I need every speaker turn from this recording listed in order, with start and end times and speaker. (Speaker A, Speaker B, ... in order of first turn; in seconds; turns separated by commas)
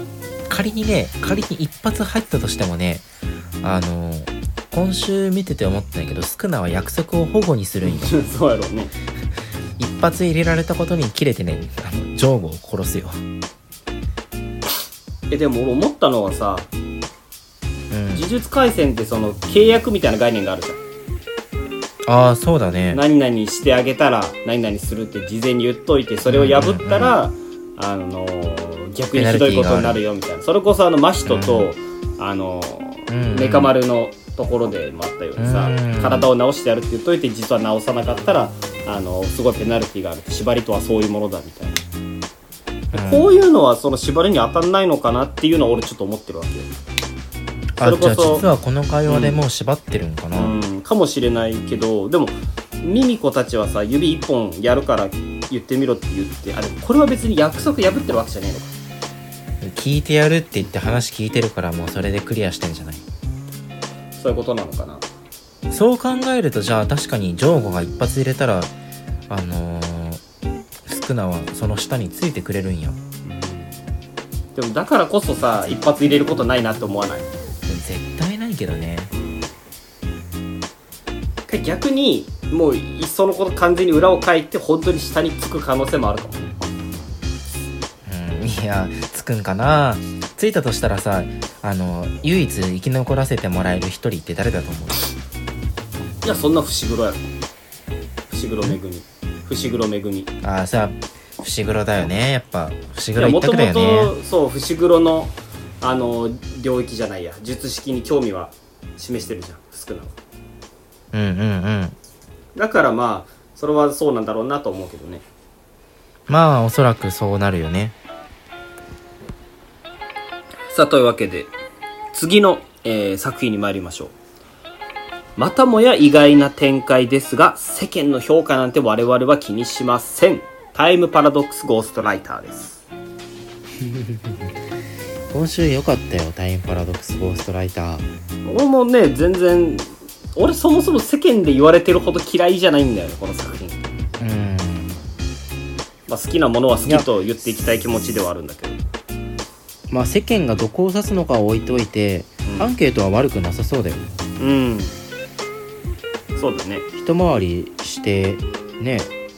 Speaker A: 0.5-3.0, Speaker A: 3.6-8.2, Speaker B: 7.8-8.9, Speaker A: 9.8-13.2, Speaker B: 15.3-16.7, Speaker A: 17.9-18.2, Speaker B: 18.1-20.8, Speaker A: 22.1-23.0, Speaker B: 22.9-41.8, Speaker A: 26.3-27.1, Speaker A: 29.1-30.0, Speaker A: 31.3-31.7, Speaker A: 33.1-33.7, Speaker A: 35.4-36.3, Speaker A: 42.9-43.3, Speaker B: 42.9-46.7, Speaker A: 47.8-50.5, Speaker B: 47.8-48.5, Speaker B: 49.1-49.3, Speaker B: 50.3-58.7, Speaker A: 59.6-63.0, Speaker B: 64.2-65.0, Speaker A: 65.7-68.7, Speaker A: 69.3-70.2, Speaker A: 70.8-73.0, Speaker B: 73.2-73.7, Speaker B: 74.5-77.3, Speaker A: 77.7-79.1, Speaker B: 79.1-79.5, Speaker B: 81.5-86.5, Speaker A: 88.0-95.0, Speaker B: 96.2-97.2, Speaker B: 98.3-100.3, Speaker A: 100.4-104.1, Speaker B: 103.2-110.2, Speaker A: 111.1-112.0, Speaker B: 112.5-115.2, Speaker A: 116.3-117.9, Speaker B: 120.7-121.5, Speaker B: 122.1-124.1, Speaker B: 125.4-132.8, Speaker A: 133.8-134.5, Speaker A: 135.3-138.1, Speaker B: 138.4-143.8, Speaker A: 144.2-144.9, Speaker B: 146.1-148.8, Speaker A: 149.9-154.1, Speaker B: 152.4-152.7, Speaker B: 154.4-155.0, Speaker B: 156.3-156.9, Speaker A: 156.9-159.1